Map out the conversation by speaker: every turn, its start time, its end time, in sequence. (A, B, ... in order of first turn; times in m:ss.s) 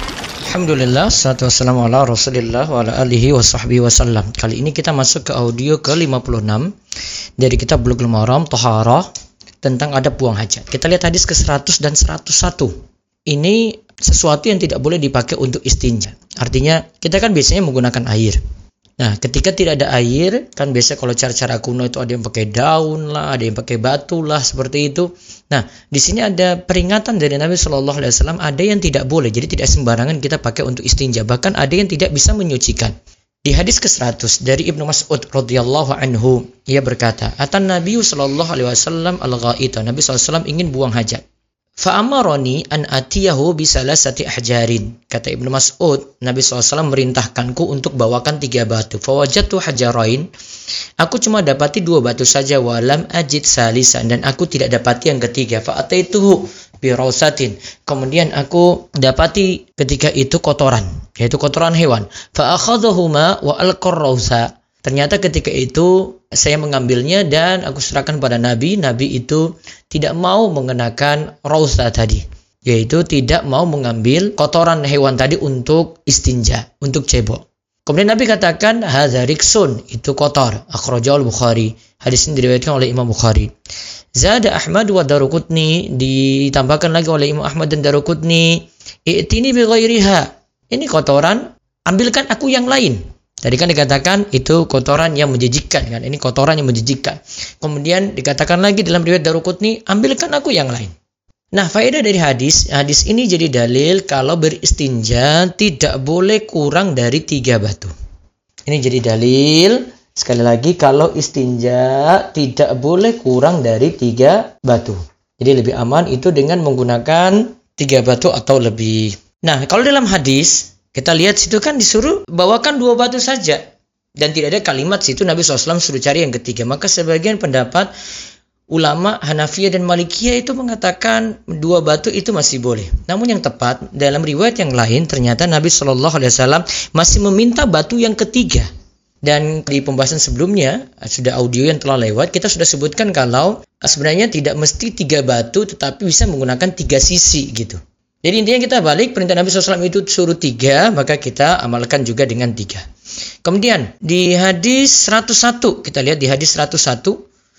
0:00.5-0:06.7 A
0:07.4-0:09.1 A
0:09.6-0:12.7 A
0:13.3-0:18.4 A
0:19.0-0:32.9 A
0:33.4-0:41.2 A
0:41.8-0:50.3 A
0:51.0-1:23.5 A
1:24.2-1:40.9 A
1:41.5-1:47.9 A
1:48.6-2:03.6 A
2:04.2-2:07.9 A
2:08.7-2:18.7 A
2:19.2-2:32.8 A
2:33.4-2:37.2 A